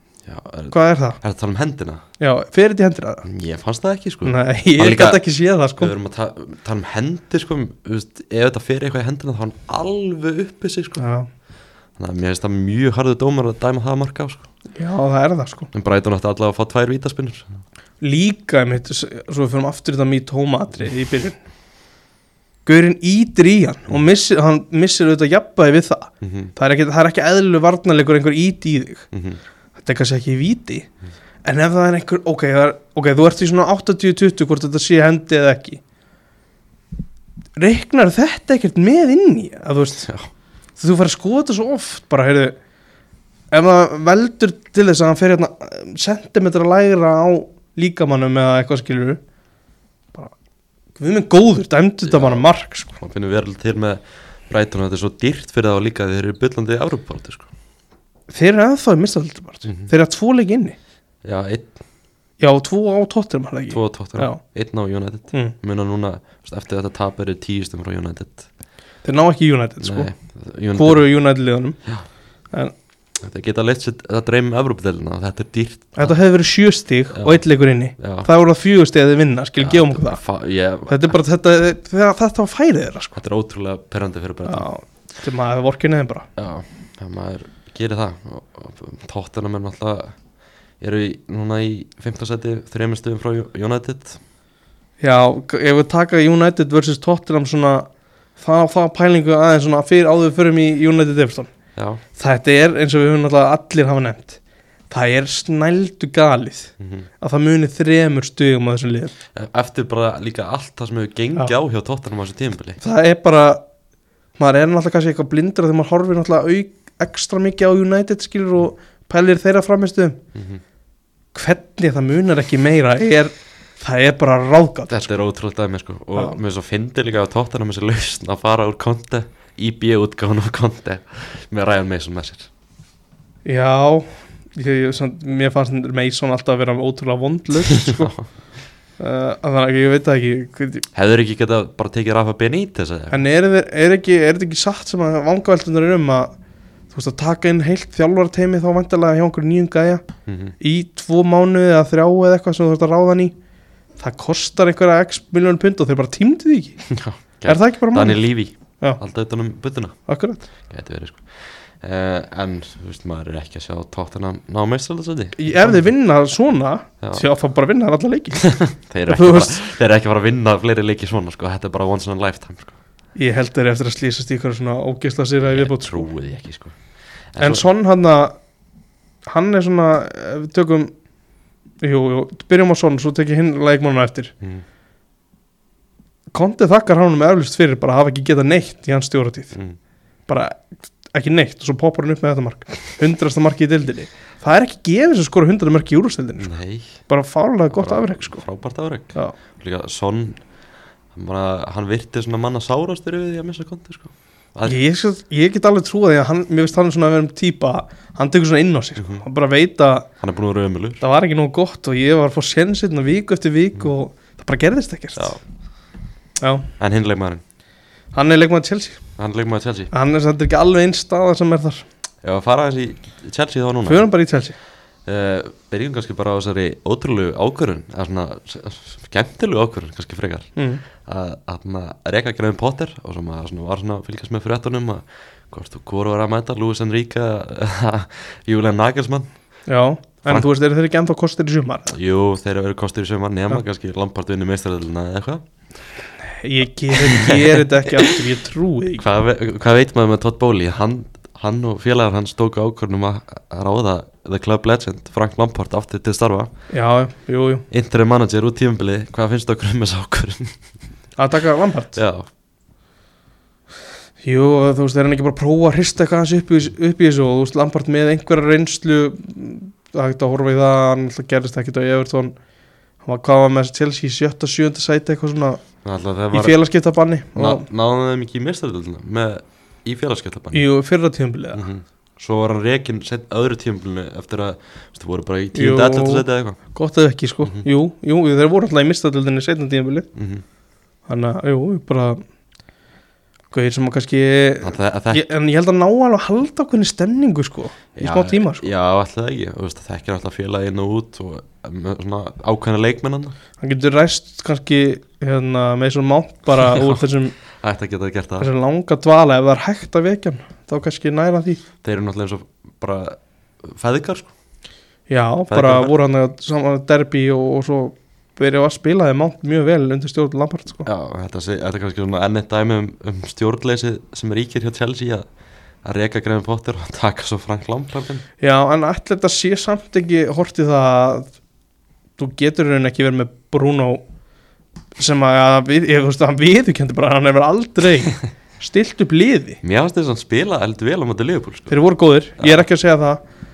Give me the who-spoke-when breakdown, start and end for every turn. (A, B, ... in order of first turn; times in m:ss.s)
0:00.2-0:02.0 A
0:00.7-0:01.2 B
0:02.2-0:03.2 B
0:03.2-0:05.2 A
0:04.2-0:05.9 B
0:05.8-0:11.0 A
0:11.0-0:11.3 B
0:12.0-0:14.4 A
0:14.8-0:15.7 B
0:15.7-0:17.6 A
0:18.0-0:21.4 B
0:22.6-0:29.1 B
0:26.2-0:26.5 A
0:29.1-0:29.4 A
0:29.8-0:30.9 B
0:31.4-0:35.8 B
0:37.6-0:40.1 B
0:40.8-0:42.6 B
0:43.5-0:49.2 B
0:51.0-0:52.9 B
0:52.0-0:57.5 A
0:58.3-1:00.8 B
1:01.2-1:01.7 A
1:02.4-1:04.4 B
1:03.7-1:08.4 A
1:09.0-1:10.1 B
1:09.8-1:11.0 A
1:10.8-1:11.8 B
1:13.2-1:16.2 A
1:16.0-1:20.2 B
1:17.1-1:17.4 A
1:18.0-1:18.3 A
1:19.6-1:21.1 A
1:20.9-1:23.1 B
1:23.1-1:24.7 A
1:24.4-1:26.3 B
1:26.4-1:30.1 A
1:30.8-1:34.2 A
1:35.0-1:41.5 B
1:41.8-1:42.0 A
1:42.1-1:44.4 B
1:44.9-1:49.1 B
1:46.8-1:47.1 A
1:49.3-1:52.8 A
1:52.8-1:53.6 B
1:54.4-2:00.2 B
2:00.3-2:00.6 A
2:01.3-2:05.1 B
2:04.9-2:12.5 A
2:13.4-2:18.1 B
2:17.7-2:18.2 A
2:19.0-2:20.8 B
2:20.9-2:23.2 A
2:23.1-2:26.3 B
2:26.9-2:30.0 B
2:30.2-2:30.5 A
2:30.6-2:33.3 B
2:34.0-2:36.8 B
2:36.9-2:40.0 A
2:37.4-2:38.2 B
2:40.1-2:40.4 B
2:40.7-2:45.9 A
2:45.4-2:48.4 B
2:48.4-2:52.8 A
2:49.1-2:49.6 B
2:53.2-2:56.1 B
2:55.4-2:56.8 A
2:57.3-2:57.6 A
2:57.4-2:58.4 B
2:59.3-3:00.9 B
3:01.8-3:04.3 B
3:06.3-3:09.5 B
3:10.3-3:16.5 B
3:16.4-3:17.0 A
3:17.1-3:18.4 B
3:17.7-3:20.4 A
3:21.1-3:24.8 A
3:24.6-3:30.1 B
3:29.0-3:29.2 A
3:30.2-3:31.0 A
3:31.0-3:35.3 B
3:35.2-3:35.4 A
3:36.4-3:36.7 B
3:36.8-3:37.4 A
3:38.1-3:39.0 B
3:39.2-3:39.9 A
3:39.9-3:41.8 B
3:42.2-3:44.1 A
3:43.8-3:44.5 B
3:45.0-3:50.5 A
3:50.6-3:50.8 B
3:51.0-3:59.3 A
3:59.7-4:02.0 B
4:01.9-4:05.4 A
4:06.2-4:09.0 B
4:06.9-4:08.2 A
4:09.0-4:16.5 A
4:16.7-4:17.6 B
4:17.7-4:20.5 A
4:21.2-4:22.0 B
4:21.9-4:22.3 A
4:24.2-4:32.3 B
4:33.0-4:35.6 B
4:35.8-4:36.6 A
4:36.3-4:37.6 B
4:37.3-4:40.6 A
4:40.5-4:41.6 B
4:41.5-4:46.6 A
4:45.5-4:50.1 B
4:50.1-4:50.4 A
4:51.1-4:52.2 B
4:53.5-4:58.7 B
4:54.6-4:55.2 A
4:58.0-5:03.3 A
5:03.6-5:07.4 B
5:06.6-5:07.0 A
5:07.6-5:08.5 A
5:08.4-5:11.6 B
5:11.8-5:14.3 A
5:15.1-5:20.9 B
5:15.5-5:15.9 A
5:20.8-5:25.2 A
5:25.8-5:28.2 A
5:28.4-5:31.3 B
5:32.2-5:34.0 B
5:35.0-5:39.6 B
5:39.6-5:41.7 A
5:41.7-5:43.2 B
5:42.4-5:42.7 A